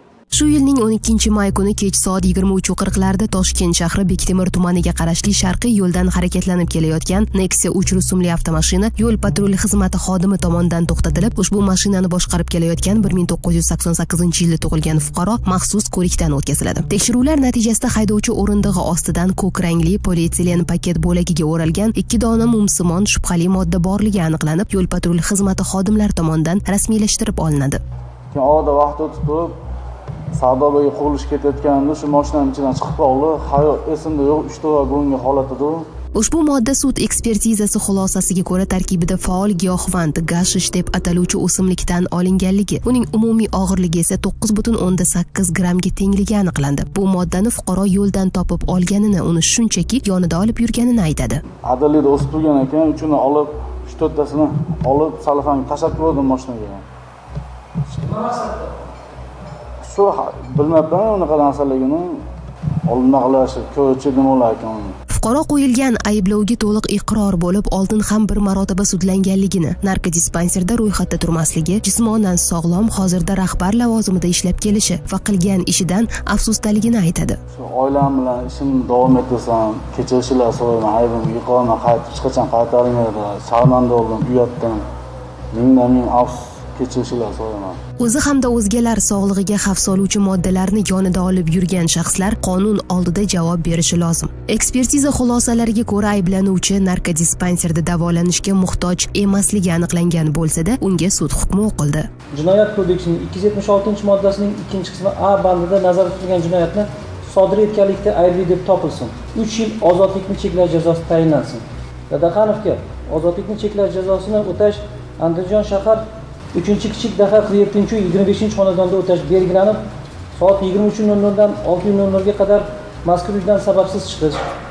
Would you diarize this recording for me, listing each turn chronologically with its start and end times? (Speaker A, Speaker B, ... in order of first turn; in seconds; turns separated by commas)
Speaker A: 0.3-27.8, Speaker B: 28.3-29.5, Speaker B: 30.3-35.8, Speaker A: 36.1-51.4, Speaker B: 51.6-56.8, Speaker B: 58.0-58.3, Speaker B: 59.8-62.2, Speaker B: 62.9-64.9, Speaker A: 65.1-77.4, Speaker B: 77.5-84.8, Speaker B: 85.5-87.8, Speaker A: 88.0-102.1, Speaker C: 102.3-116.0, Speaker C: 116.5-119.8, Speaker C: 120.4-124.4